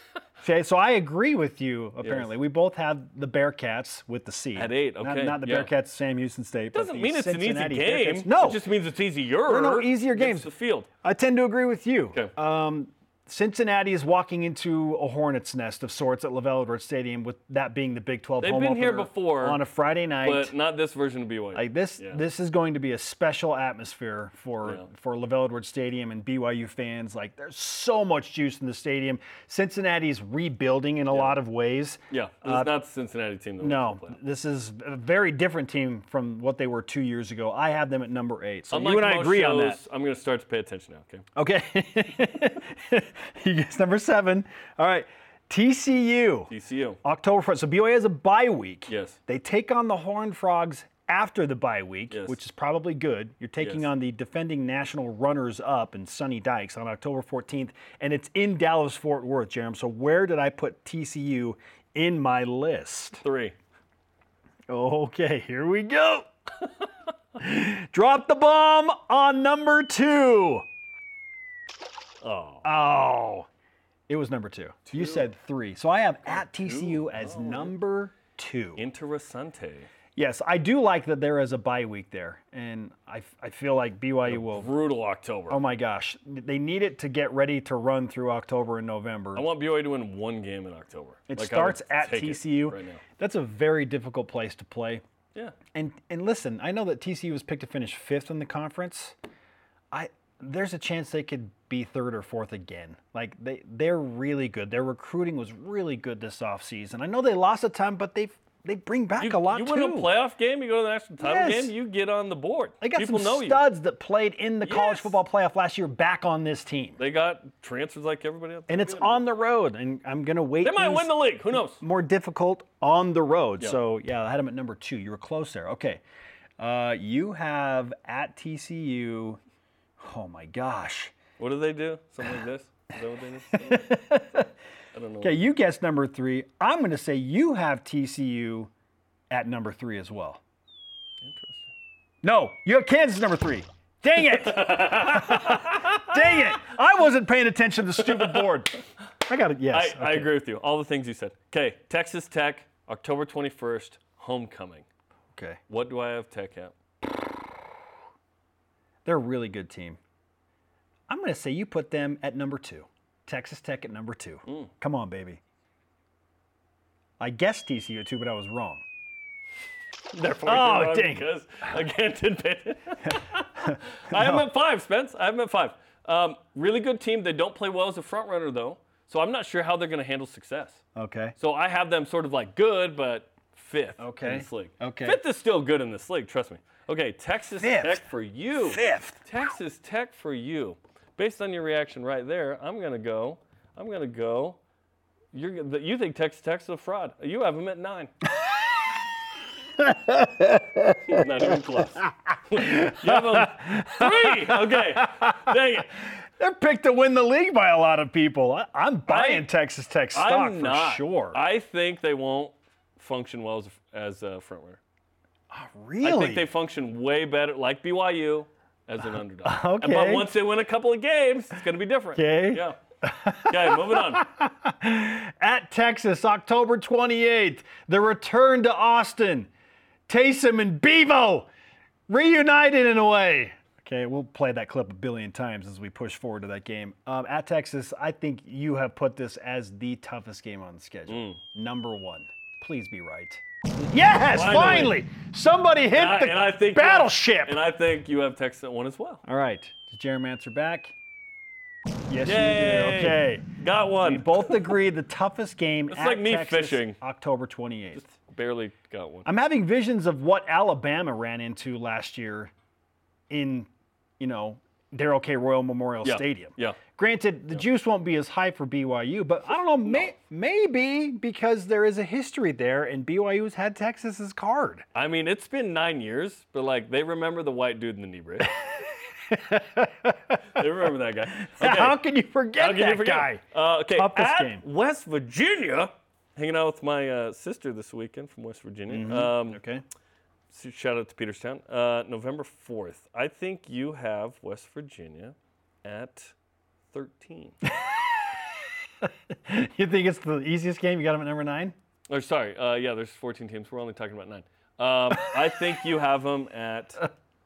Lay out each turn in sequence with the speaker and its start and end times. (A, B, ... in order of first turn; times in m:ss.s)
0:00.4-0:08.6 A
0:02.0-0:02.3 B
0:04.5-0:05.7 B
0:06.7-0:10.9 B
0:09.4-0:10.5 A
0:11.0-0:20.5 A
0:18.4-0:19.6 B
0:20.2-0:22.2 B
0:21.5-0:32.7 A
0:31.1-0:31.4 B
0:32.1-0:34.2 B
0:33.6-0:39.8 A
0:38.7-0:41.2 B
0:41.4-0:46.5 A
0:46.5-0:47.0 B
0:47.0-1:03.2 A
0:48.9-0:49.2 B
0:52.1-0:52.4 B
0:53.6-0:53.9 B
1:03.2-1:03.6 B
1:04.7-1:06.3 A
1:07.4-1:10.6 A
1:12.2-1:12.6 B
1:12.6-1:13.5 A
1:14.1-1:18.8 A
1:14.9-1:15.3 B
1:16.2-1:17.7 B
1:18.8-1:19.9 B
1:20.2-1:24.7 A
1:24.2-1:25.6 B
1:25.5-1:29.4 A
1:29.3-1:33.0 B
1:31.3-1:35.0 A
1:35.7-1:39.1 A
1:39.9-1:50.1 A
1:49.2-1:53.6 B
1:51.2-1:51.7 A
1:52.8-1:57.0 A
1:54.6-1:55.2 B
1:57.0-1:59.2 B
1:58.7-2:06.0 A
2:00.6-2:01.8 B
2:06.6-2:09.4 A
2:10.0-2:11.1 A
2:11.4-2:14.0 B
2:13.5-2:14.5 A
2:14.9-2:15.4 B
2:15.2-2:18.7 A
2:19.3-2:20.4 A
2:21.2-2:21.7 B
2:22.2-2:30.3 A
2:24.2-2:26.6 B
2:28.0-2:28.4 B
2:29.7-2:34.8 B
2:35.3-2:35.6 A
2:35.7-2:36.7 B
2:39.0-2:40.0 A
2:41.1-2:45.4 A
2:47.2-2:48.8 A
2:50.1-3:00.8 B
2:50.4-2:51.3 A
2:53.1-2:54.4 A
3:01.0-3:01.3 A
3:01.4-3:14.6 B
3:04.0-3:05.2 A
3:07.6-3:08.0 A
3:08.6-3:09.3 A
3:15.3-3:18.1 B
3:19.8-3:21.2 A
3:21.1-3:25.9 B
3:22.6-3:25.5 A
3:26.4-3:31.4 A
3:29.1-3:29.5 B
3:30.1-3:34.8 B
3:35.5-3:36.4 A
3:36.0-3:42.8 B
3:39.4-3:40.3 A
3:42.2-3:49.5 A
3:43.4-3:44.2 B
3:50.1-3:51.5 A
3:52.1-4:07.6 A
4:01.1-4:01.4 B
4:04.3-4:05.0 B
4:05.9-4:09.2 B
4:09.2-4:10.9 A
4:12.1-4:13.4 A
4:12.2-4:14.7 B
4:14.0-4:18.0 A
4:15.9-4:17.0 B
4:17.9-4:19.3 B
4:19.2-4:22.5 A
4:23.3-4:23.7 A
4:24.2-4:34.8 A
4:26.0-4:26.8 B
4:34.9-4:38.5 B
4:39.3-4:40.4 A
4:40.5-4:42.0 B
4:41.4-4:43.4 A
4:42.6-4:49.6 B
4:43.9-4:44.6 A
4:48.9-4:49.8 A
4:50.5-4:56.3 B
4:56.9-4:57.6 B
4:57.6-4:58.2 A
4:59.0-5:01.7 A
5:02.1-5:07.0 B